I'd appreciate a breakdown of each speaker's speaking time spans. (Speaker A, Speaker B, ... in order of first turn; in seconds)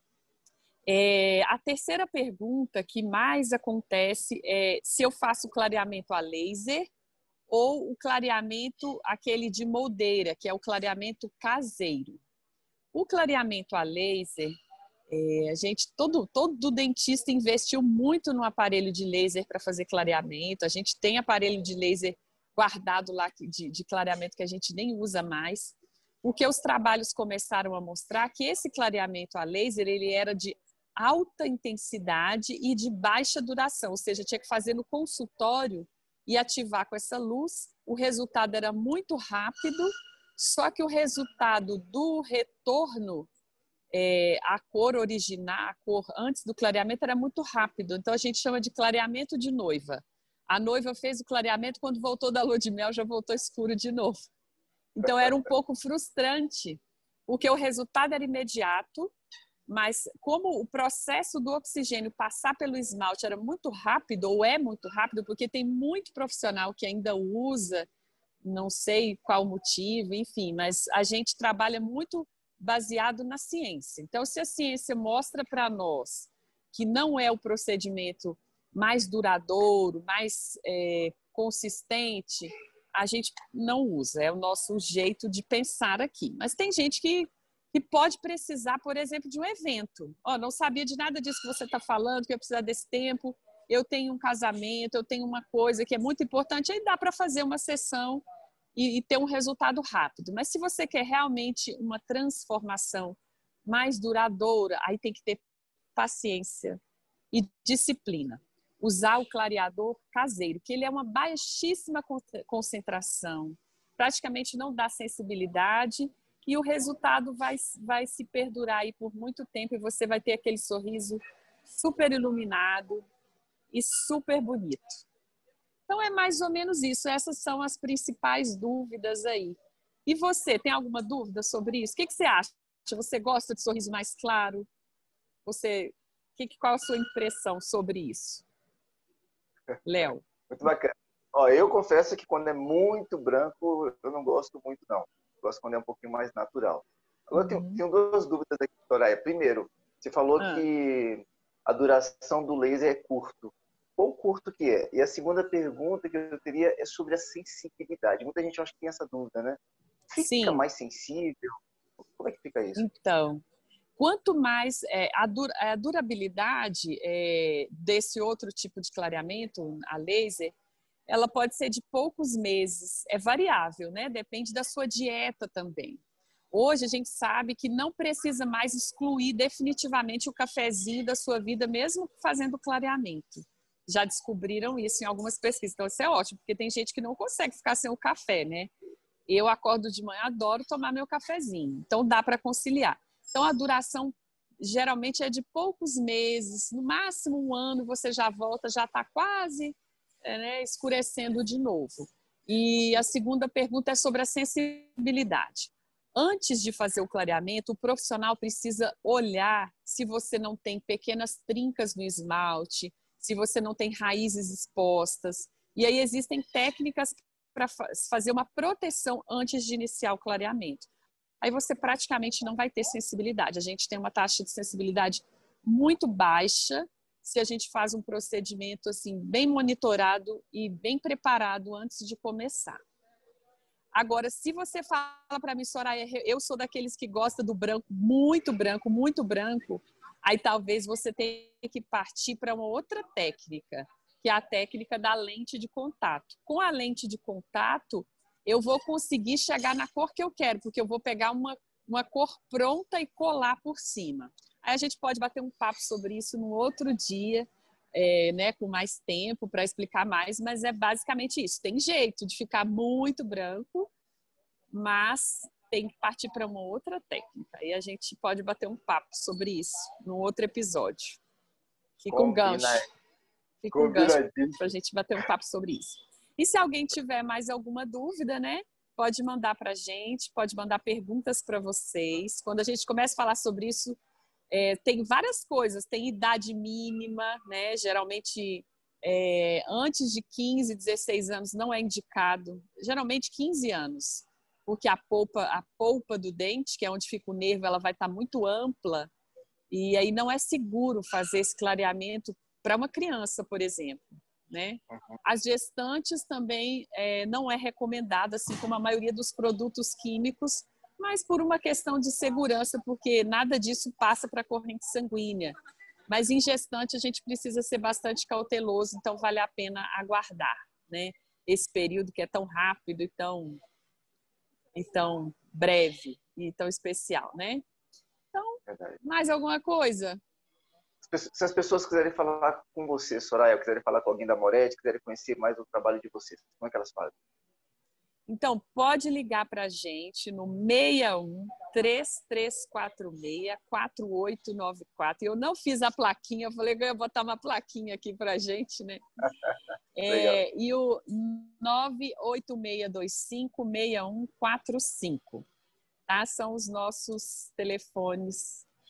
Speaker A: 0.8-6.9, 7.5-12.2, 12.9-14.6, 15.1-43.3, 43.9-54.2, 55.0-59.1, 59.7-67.9, 68.4-98.2, 98.7-105.4, 105.9-106.8, 107.3-123.0, 123.7-125.0, 125.9-134.7, 135.4-138.4, 139.8-140.7, 147.3-147.8, 150.4-150.7, 160.2-160.6, 162.7-163.4, 164.0-170.5, 171.1-188.7, 189.3-220.9, 221.4-232.8, 233.9-263.9, 264.7-271.2, 272.0-272.9, 273.6-284.0, 284.5-299.1, 299.7-315.5, 316.1-323.6, 324.7-327.6, 328.3-330.2, 338.3-349.0, 349.9-355.4, 356.1-358.6
Speaker B: 140.5-159.6, 160.1-162.8, 272.1-272.9, 273.7-274.6, 304.9-305.2, 328.7-329.0, 331.0-337.1, 350.1-350.4